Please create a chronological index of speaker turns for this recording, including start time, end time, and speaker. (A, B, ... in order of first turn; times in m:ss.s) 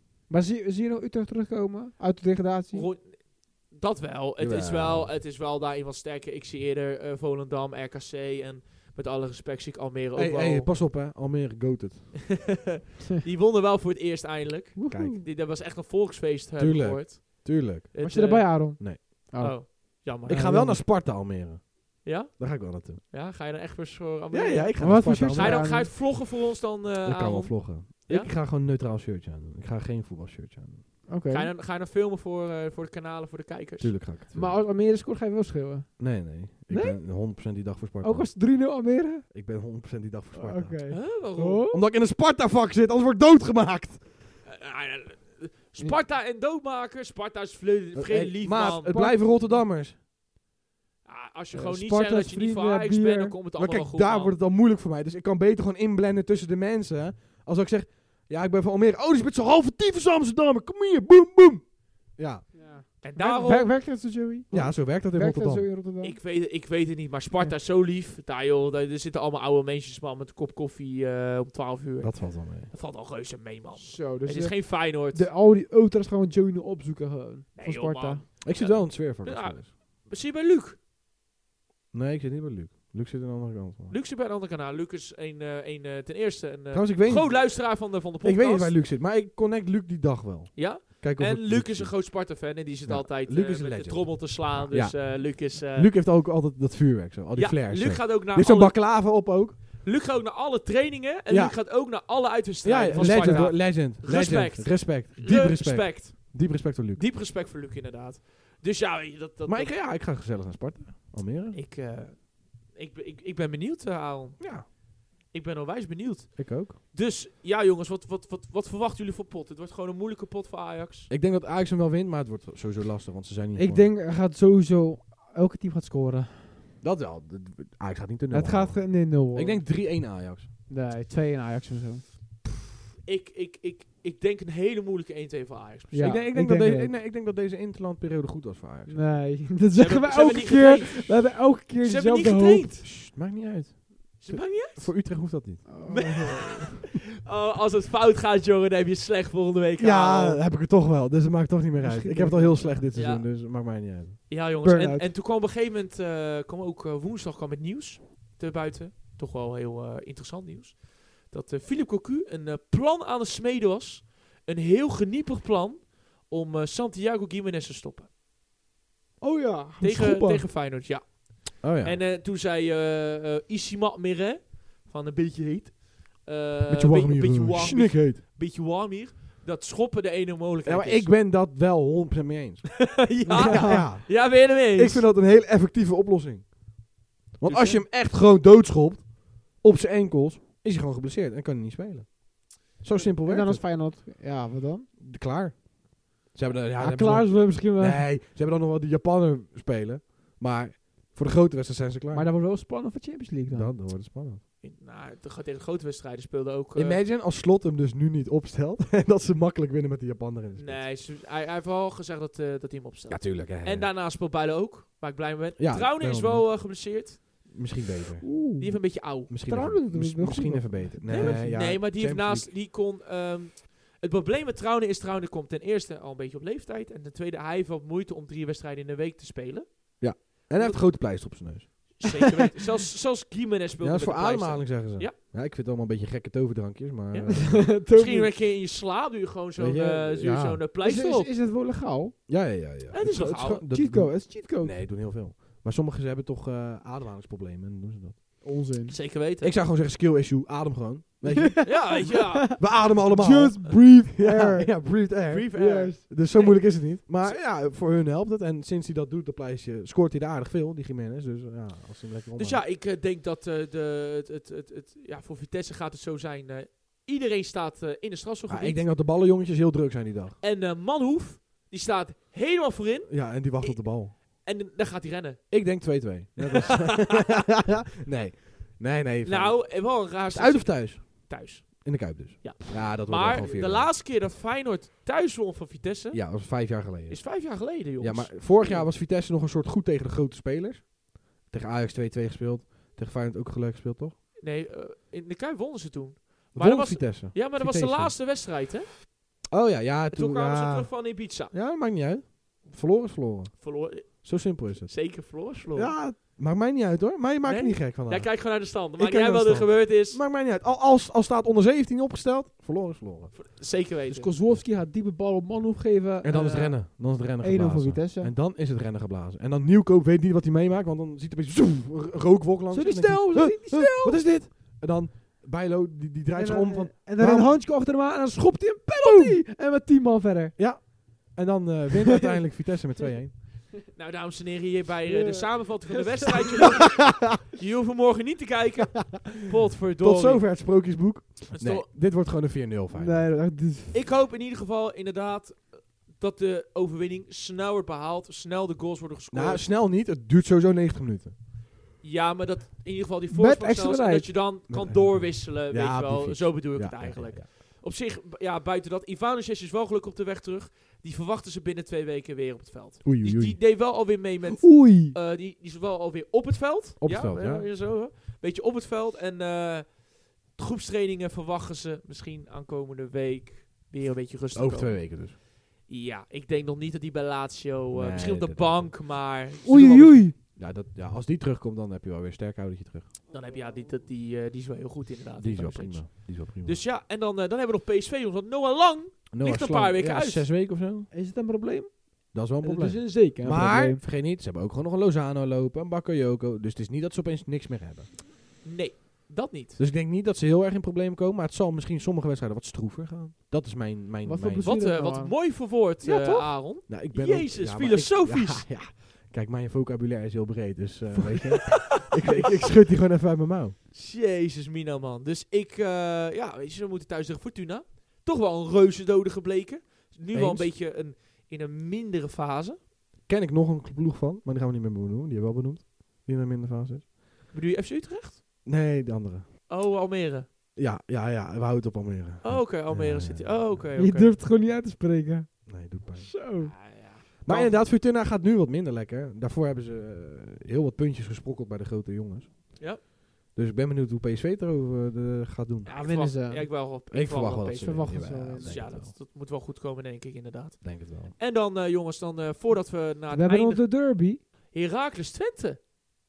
0:00.3-0:02.9 A
0:02.7-0:10.7 B
0:04.4-0:05.1 C
0:10.1-0:12.5 C
0:12.3-0:20.5 B
0:14.8-0:15.2 A
0:14.9-0:15.2 C
0:16.6-0:17.9 C
0:18.0-0:20.8 A
0:18.8-0:19.0 C
0:20.3-0:23.0 C
0:22.0-0:28.3 B
0:24.3-0:25.9 C
0:24.8-0:25.9 A
0:27.0-0:30.8 C
0:31.1-0:31.5 A
0:31.3-0:34.0 B
0:33.8-0:34.6 C
0:34.3-0:37.2 A
0:36.0-0:38.3 C
0:38.0-0:39.3 A
0:39.3-0:41.1 C
0:40.3-0:41.8 A
0:40.9-0:41.6 B
0:41.7-0:44.1 C
0:44.4-0:49.1 B
0:47.9-0:50.0 C
0:51.0-0:54.4 B
0:51.5-0:53.4 A
0:53.5-1:02.5 C
1:02.5-1:06.2 A
1:03.0-1:03.8 B
1:04.5-1:05.7 C
1:06.0-1:15.3 B
1:12.0-1:12.7 C
1:13.8-1:18.2 A
1:17.6-1:20.8 B
1:18.4-1:19.7 C
1:21.9-1:24.0 C
1:23.9-1:28.7 B
1:26.7-1:39.6 C
1:30.5-1:35.9 B
1:37.3-1:39.0 B
1:39.8-1:49.8 B
1:41.3-1:42.1 C
1:42.6-1:47.0 C
1:42.9-1:43.5 A
1:49.4-1:51.6 C
1:51.5-2:01.1 B
1:54.4-1:54.7 C
1:56.4-1:56.8 C
2:01.1-2:03.9 C
2:03.5-2:06.7 A
2:06.8-2:10.5 C
2:08.3-2:09.8 A
2:10.7-2:12.0 A
2:13.0-2:16.2 B
2:15.9-2:16.9 A
2:16.0-2:19.0 C
2:18.9-2:22.8 A
2:19.7-2:22.9 B
2:22.8-2:25.6 C
2:24.2-2:30.4 B
2:25.6-2:26.8 A
2:29.8-2:34.3 C
2:31.8-2:32.9 A
2:32.9-2:33.7 B
2:34.3-2:48.1 B
2:34.6-2:35.1 A
2:49.2-2:50.2 A
2:49.2-2:50.4 C
2:49.8-3:01.1 B
2:51.6-2:52.0 C
2:56.7-2:58.2 C
3:00.6-3:06.6 C
3:02.9-3:05.1 B
3:03.3-3:03.9 A
3:07.3-3:13.6 C
3:07.4-3:07.8 B
3:13.2-3:14.9 A
3:15.0-3:22.3 C
3:16.8-3:18.0 A
3:22.1-3:23.7 A
3:23.5-3:24.4 C
3:24.6-3:27.0 B
3:26.7-3:30.9 C
3:30.5-3:37.5 B
3:33.1-3:33.9 C
3:35.6-3:36.6 C
3:37.2-3:38.3 C
3:38.2-3:41.8 A
3:38.6-3:39.3 B
3:39.3-3:42.6 C
3:41.1-3:55.2 B
3:50.0-3:52.2 C
3:53.8-3:57.8 C
3:57.2-3:58.3 A
3:57.9-4:01.3 B
3:59.6-4:00.6 C
4:00.8-4:02.2 A
4:02.3-4:08.4 C
4:02.9-4:03.6 B
4:03.7-4:04.8 A
4:08.4-4:09.0 A
4:08.9-4:09.5 B
4:09.4-4:22.6 C
4:11.2-4:16.0 A
4:11.6-4:12.8 B
4:15.3-4:17.4 B
4:22.4-4:28.8 B
4:28.5-4:30.4 C
4:30.4-4:37.2 B
4:33.1-4:34.2 C
4:35.5-4:43.9 C
4:39.2-4:48.9 B
4:43.3-4:43.6 A
4:46.1-4:54.2 C
4:54.4-4:58.9 B
4:56.5-4:58.2 C
4:59.5-5:13.4 C
5:00.1-5:01.5 B
5:03.6-5:06.0 B
5:07.4-5:10.2 B
5:13.3-5:14.3 B
5:14.1-5:18.3 A
5:16.2-5:27.6 C
5:22.7-5:24.3 A
5:26.3-5:30.6 A
5:29.0-5:29.4 C
5:30.6-5:33.4 C
5:33.9-5:40.6 B
5:35.1-5:36.8 A
5:40.0-5:43.2 C
5:41.5-5:41.9 B
5:42.9-5:44.0 A
5:43.9-5:49.7 B
5:49.3-5:51.3 C
5:52.0-6:20.3 B
5:53.3-5:54.4 A
5:54.7-5:57.5 C
6:03.0-6:03.6 C
6:04.6-6:05.2 A
6:07.0-6:07.7 C
6:14.5-6:15.4 C
6:17.9-6:19.0 C
6:19.6-6:20.3 A
6:20.6-6:23.1 C
6:23.3-6:30.5 B
6:25.4-6:26.8 C
6:29.3-6:31.1 C
6:31.1-6:34.0 A
6:32.3-6:38.1 C
6:38.6-6:39.8 B
6:39.8-6:44.7 C
6:44.2-6:46.5 A
6:44.6-6:48.7 B
6:46.1-6:53.8 C
6:51.9-6:52.4 B
6:53.9-7:02.8 B
7:00.3-7:00.7 C
7:03.3-7:07.1 C
7:07.5-7:08.4 B
7:08.6-7:09.5 C
7:09.7-7:10.5 B
7:10.7-7:13.8 C
7:12.4-7:14.4 B
7:14.0-7:16.7 A
7:15.6-7:16.4 C
7:16.6-7:17.8 B
7:17.4-7:23.0 C
7:23.5-7:25.9 C
7:25.8-7:34.0 B
7:26.0-7:26.7 A
7:27.1-7:29.1 C
7:27.8-7:28.9 A
7:30.8-7:31.4 C
7:33.3-7:34.4 A
7:34.7-7:35.8 B